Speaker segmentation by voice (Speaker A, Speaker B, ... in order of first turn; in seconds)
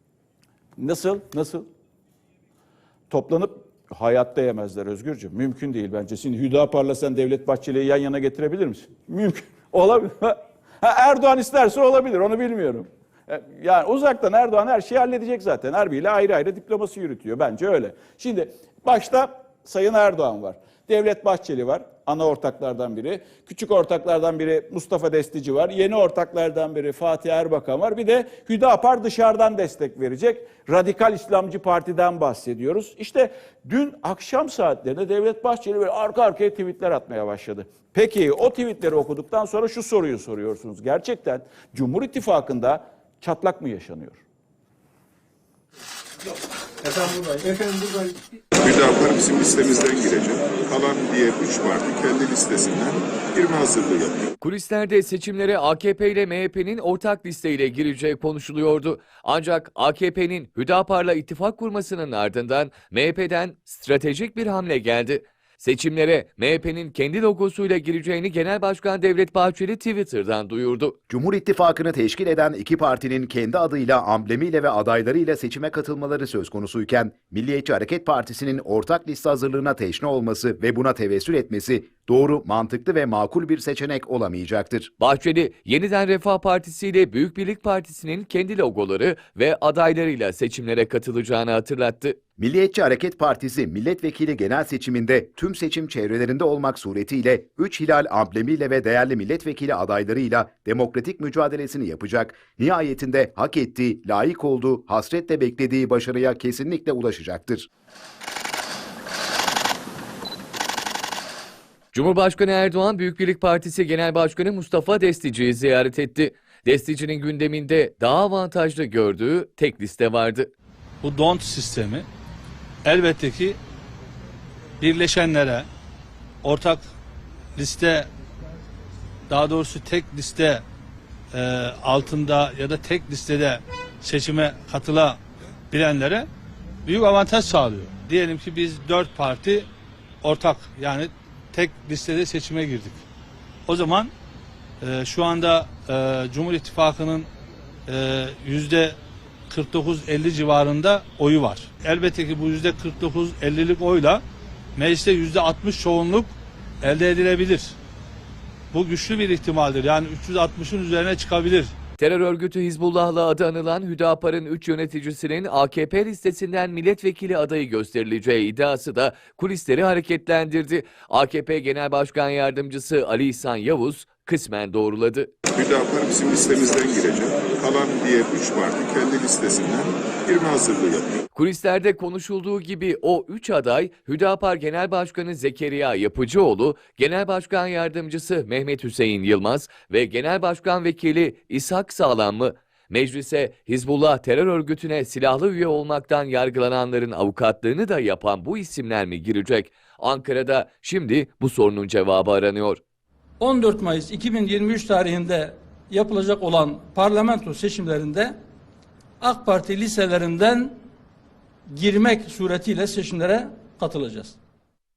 Speaker A: 0.8-1.6, 3.1-44.2
Speaker B: 48.6-54.3, 175.5-181.2
Speaker C: 54.4-71.0, 85.0-92.2, 111.9-120.5, 162.0-175.3, 181.3-202.8
Speaker D: 71.1-84.9, 92.4-107.7
Speaker E: 121.0-122.1, 122.8-123.6, 124.8-125.7, 126.4-126.8, 127.5-128.1, 129.3-130.6, 131.3-136.3, 136.8-139.7, 140.2-143.0, 143.6-144.1, 144.8-147.3, 147.9-149.0, 149.5-154.2, 154.8-157.8, 158.7-161.7
Speaker F: 203.4-208.3, 209.2-210.8, 211.7-214.3